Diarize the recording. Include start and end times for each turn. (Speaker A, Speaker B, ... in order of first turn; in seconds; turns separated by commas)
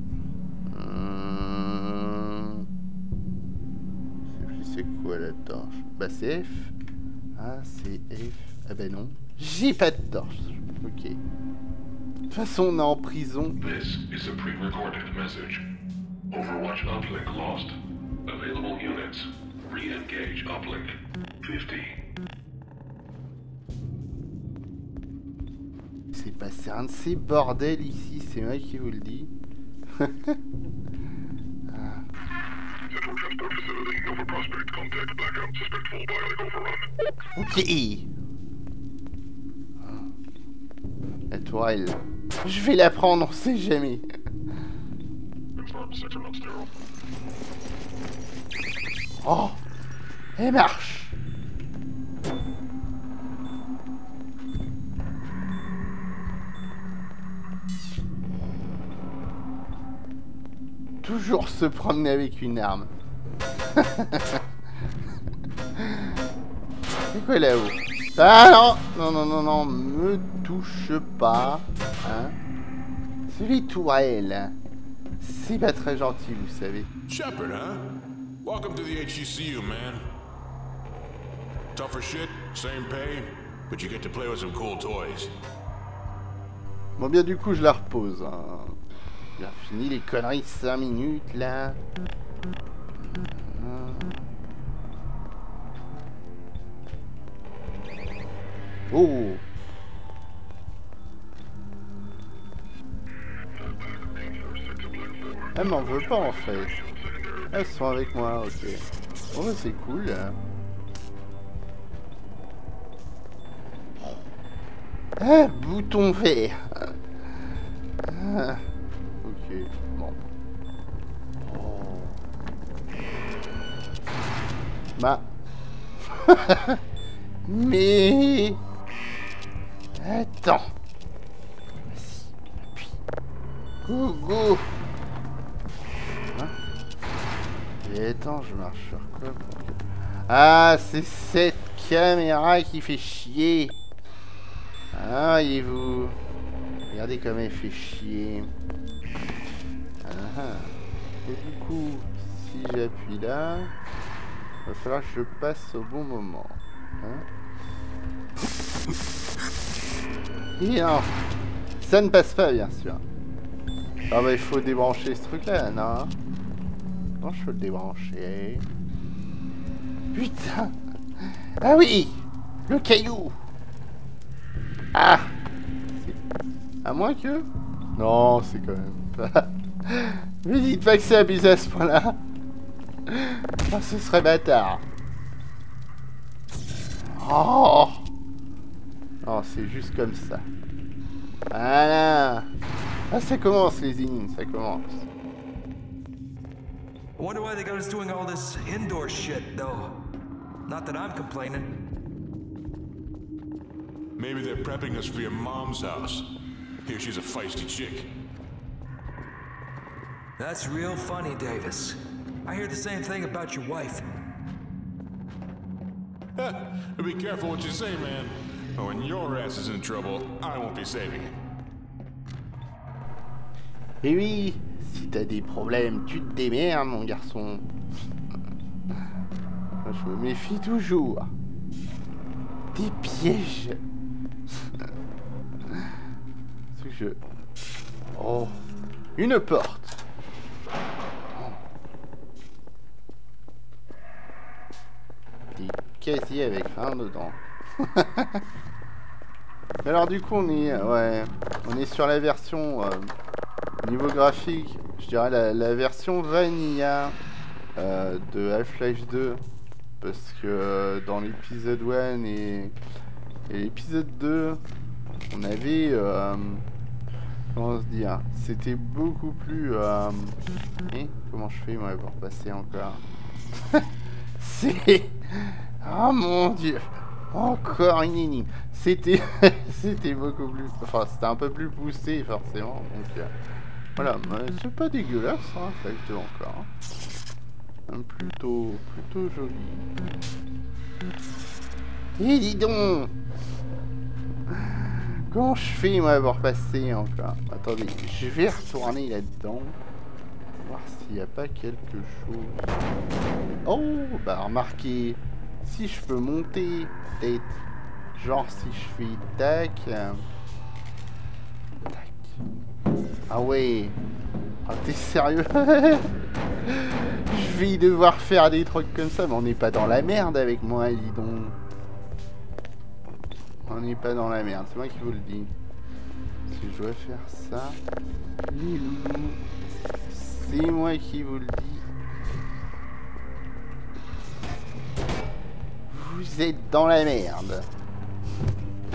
Speaker A: 0.7-2.7, Speaker A: 4.3-6.7, Speaker A: 7.4-11.2, Speaker A: 12.3-13.6, Speaker B: 13.6-15.6, Speaker B: 16.3-17.8, Speaker B: 18.3-22.0, Speaker A: 26.1-29.3, Speaker A: 30.0-30.4, Speaker A: 31.7-32.0, Speaker B: 32.9-36.8, Speaker A: 37.4-38.1, Speaker A: 39.8-40.1, Speaker A: 41.3-44.0, Speaker B: 45.6-46.6, Speaker A: 49.2-49.6, Speaker A: 50.4-51.1, Speaker A: 61.0-62.9, Speaker A: 63.8-64.4, Speaker A: 65.8-66.2, Speaker A: 67.1-72.3, Speaker A: 73.3-74.5, Speaker A: 75.2-76.9, Speaker C: 77.1-77.9, Speaker C: 78.4-80.1, Speaker C: 81.8-85.3, Speaker A: 87.0-88.8, Speaker A: 89.4-91.8, Speaker A: 93.1-94.3, Speaker A: 98.9-99.4, Speaker B: 104.3-105.4, Speaker A: 105.5-106.8, Speaker A: 107.5-110.4, Speaker A: 115.2-116.9, Speaker A: 118.1-118.6, Speaker A: 119.2-120.2, Speaker A: 121.4-122.2, Speaker A: 125.0-125.3, Speaker A: 126.1-126.8, Speaker A: 127.5-128.6, Speaker A: 130.0-130.7, Speaker A: 131.9-133.0, Speaker A: 133.8-134.7, Speaker A: 137.8-143.8, Speaker A: 144.9-146.2, Speaker A: 146.9-148.5, Speaker A: 150.0-153.7, Speaker A: 154.7-157.2, Speaker A: 160.6-161.1, Speaker A: 161.8-163.0, Speaker A: 164.1-166.1, Speaker A: 167.2-168.7, Speaker A: 170.1-173.3, Speaker A: 174.9-175.3, Speaker A: 176.8-182.2, Speaker A: 183.1-184.8, Speaker A: 187.1-188.1, Speaker A: 189.2-190.5, Speaker A: 191.5-192.5, Speaker A: 193.1-195.1, Speaker D: 197.2-200.0, Speaker D: 200.7-201.7, Speaker C: 204.2-206.2, Speaker C: 206.8-208.1, Speaker D: 210.4-214.1, Speaker C: 216.4-221.3, Speaker A: 224.0-227.7, Speaker A: 229.8-231.3, Speaker A: 232.7-233.8, Speaker A: 236.7-237.2, Speaker A: 238.1-238.6, Speaker A: 239.2-240.0, Speaker A: 241.3-241.6, Speaker A: 245.6-248.4, Speaker A: 249.8-253.1, Speaker A: 253.8-257.1, Speaker A: 257.8-259.4, Speaker A: 260.0-262.8, Speaker A: 263.5-264.6, Speaker A: 265.3-266.6, Speaker A: 267.6-270.4, Speaker A: 270.9-273.0, Speaker A: 274.4-283.3, Speaker A: 283.9-286.7, Speaker A: 287.9-289.9, Speaker A: 292.2-293.1, Speaker A: 294.5-299.8, Speaker A: 300.6-302.7, Speaker A: 303.6-307.6, Speaker A: 308.1-310.2, Speaker A: 311.8-312.4, Speaker A: 313.3-314.0, Speaker A: 314.6-316.1, Speaker A: 316.7-321.6, Speaker A: 323.6-325.5, Speaker A: 326.5-327.8, Speaker A: 328.4-329.4, Speaker A: 330.1-331.8, Speaker A: 335.9-337.7